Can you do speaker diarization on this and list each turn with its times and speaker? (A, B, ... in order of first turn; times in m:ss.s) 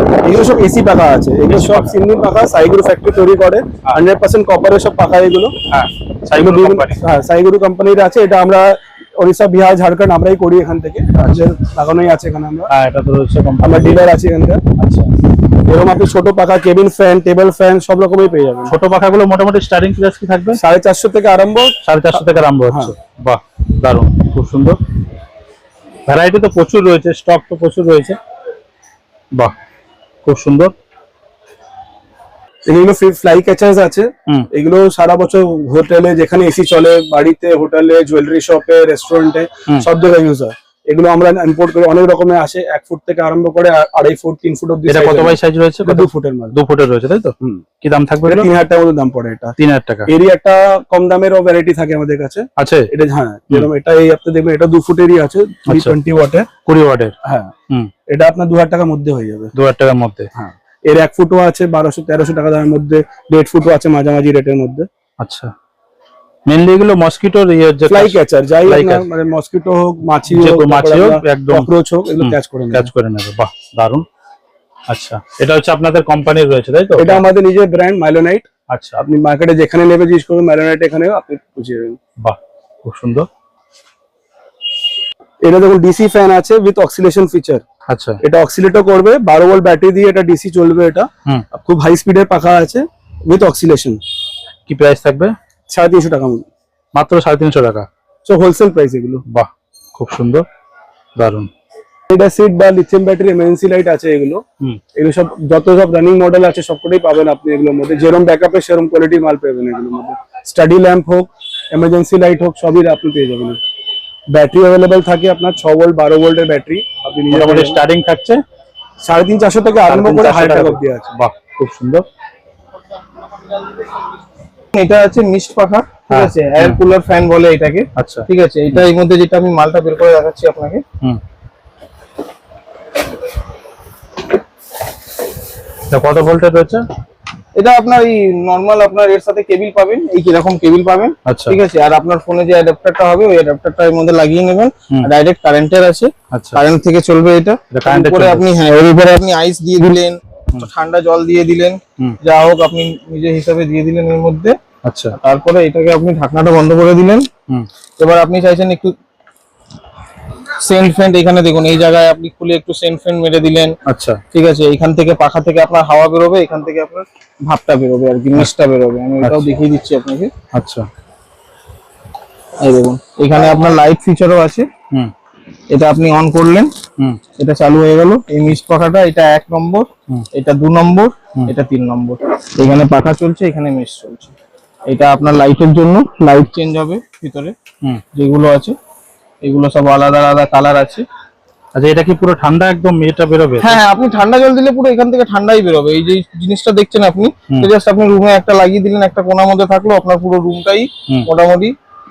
0:00.2-0:05.5 A
0:01.5-0:01.9 B
0:05.7-0:07.0 B
0:06.3-0:12.7 A
0:12.7-0:14.1 B
0:13.6-0:14.6 A
0:14.8-0:15.1 B
0:15.6-0:18.7 A
0:18.7-0:20.6 B
0:20.5-0:22.9 A
0:21.8-0:24.8 B
0:26.0-0:28.2 B
0:30.2-0:30.7 B
0:32.7-0:46.6 A
0:44.9-0:48.5 B
0:48.2-0:49.6 A
0:49.6-0:50.1 B
0:50.1-0:56.5 A
0:52.6-0:52.9 B
0:55.7-0:56.0 B
0:56.6-0:57.1 B
0:57.2-0:57.5 A
0:58.1-0:59.5 A
0:59.5-1:00.3 B
1:00.3-1:04.9 A
1:05.2-1:05.5 B
1:06.5-1:09.0 B
1:07.9-1:12.9 A
1:10.3-1:14.0 B
1:14.9-1:17.2 B
1:17.0-1:18.5 A
1:18.7-1:19.0 B
1:19.0-1:22.0 A
1:22.2-1:23.3 B
1:25.4-1:27.6 A
1:27.9-1:28.2 B
1:28.2-1:34.0 A
1:34.7-1:35.3 B
1:35.7-1:36.4 A
1:36.9-1:37.9 B
1:38.2-1:39.2 A
1:39.3-1:40.4 B
1:41.2-1:41.5 B
1:42.1-1:44.4 A
1:45.0-1:53.6 A
1:54.3-1:57.8 A
1:57.3-1:58.4 B
1:59.0-2:01.1 A
1:59.9-2:02.0 B
2:04.7-2:10.8 C
2:06.1-2:06.8 B
2:08.0-2:08.8 B
2:15.9-2:16.8 B
2:17.5-2:34.6 C
2:21.3-2:21.6 B
2:26.3-2:26.6 B
2:27.7-2:28.4 B
2:34.8-2:35.2 B
2:35.2-2:37.3 C
2:38.0-2:38.9 C
2:40.6-2:43.8 C
2:43.9-2:44.2 B
2:44.3-2:50.3 C
2:50.5-2:50.9 B
2:52.6-2:54.7 C
2:55.7-2:56.7 C
2:57.4-3:04.3 C
3:04.9-3:07.6 C
3:08.1-3:08.8 C
3:09.4-3:11.0 C
3:11.8-3:13.8 B
3:13.6-3:21.8 C